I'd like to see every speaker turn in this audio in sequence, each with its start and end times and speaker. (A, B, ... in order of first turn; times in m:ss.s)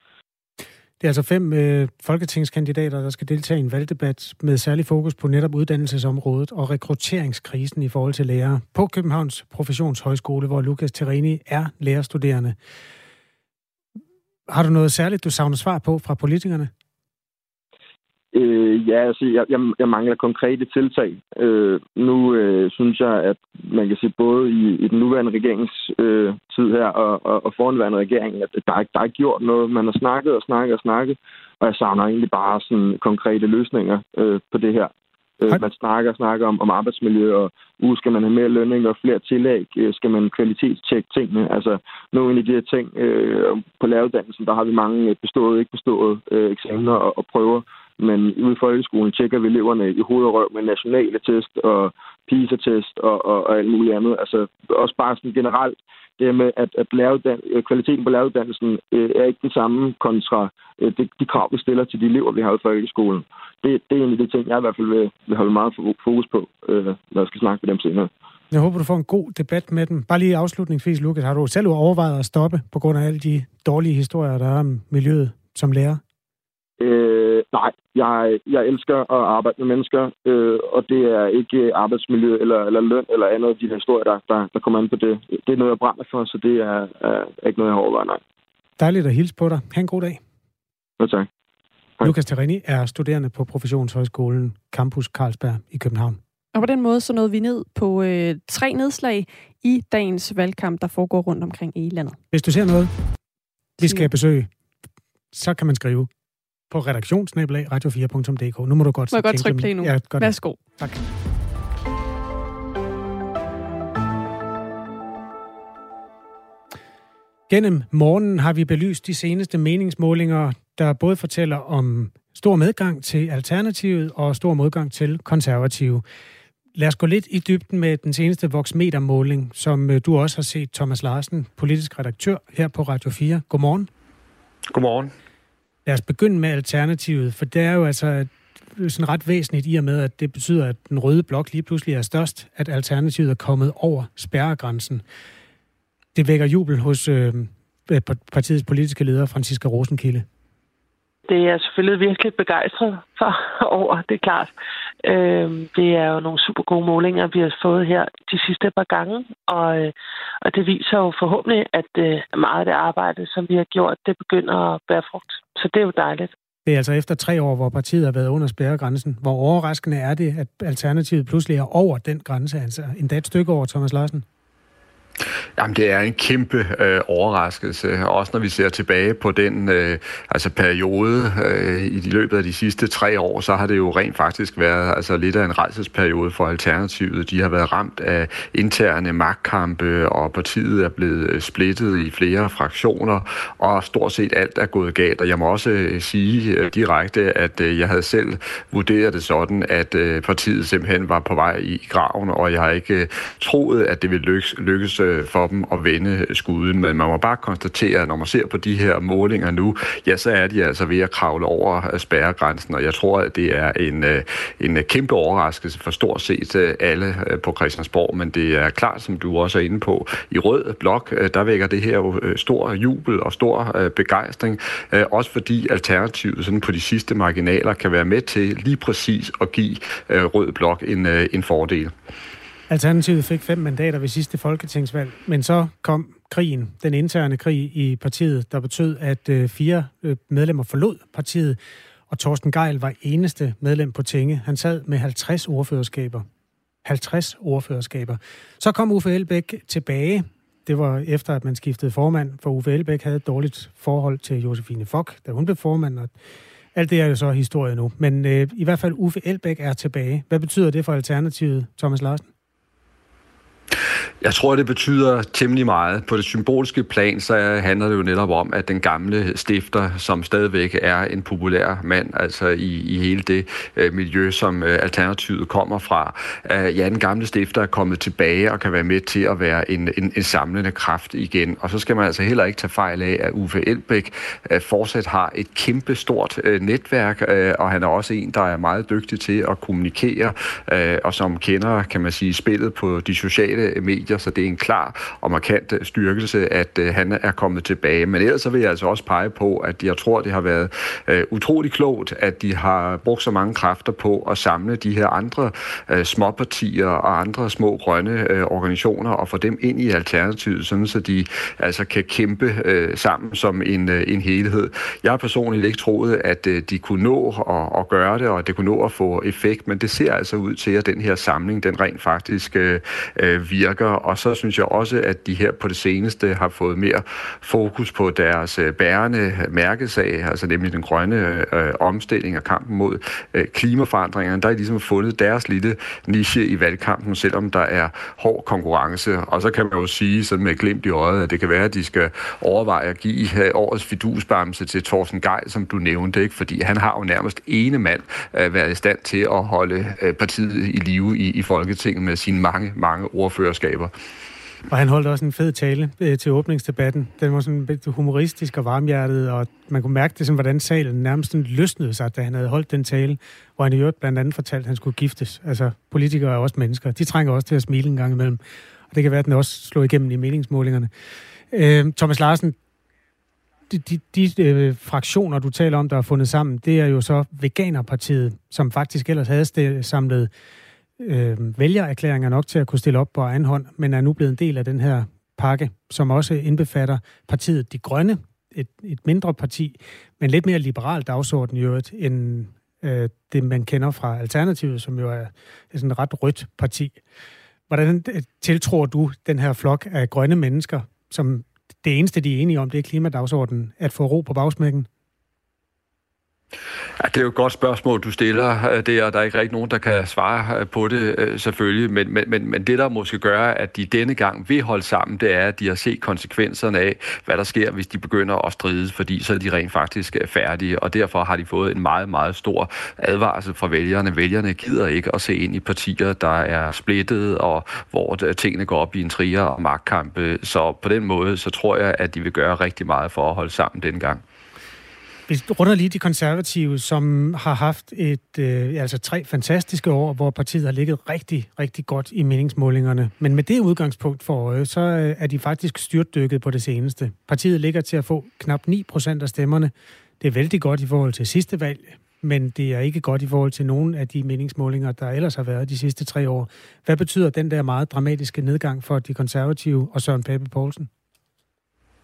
0:01.0-0:12.6 A
0:14.5-0:16.7 A
0:18.3-1:08.1 B
1:08.5-1:16.0 A
1:16.8-1:28.2 B
1:28.8-1:30.2 A
1:31.0-1:31.3 B
1:32.0-1:36.2 A
1:36.5-1:42.2 C
1:42.3-1:42.9 A
1:43.8-1:44.5 A
1:43.8-1:44.1 C
1:45.3-1:46.1 A
1:46.7-1:51.1 A
1:49.1-1:50.6 C
1:57.5-2:06.0 A
2:06.8-2:13.9 A
2:14.7-2:15.1 D
2:15.9-2:25.0 A
2:26.2-2:30.3 A
2:31.3-2:34.5 E
2:35.0-2:46.3 E
2:46.7-2:54.2 A
2:55.6-3:51.9 D
3:52.7-4:01.6 A
4:02.1-4:06.3 A
4:06.8-4:16.2 A
4:16.8-4:22.3 A
4:24.2-5:53.9 D
5:54.7-6:10.9 A
6:11.5-6:12.6 A
6:13.7-6:20.3 A
6:21.0-6:37.0 A
6:37.7-6:44.9 A
6:47.0-7:14.2 D
7:15.3-7:40.9 A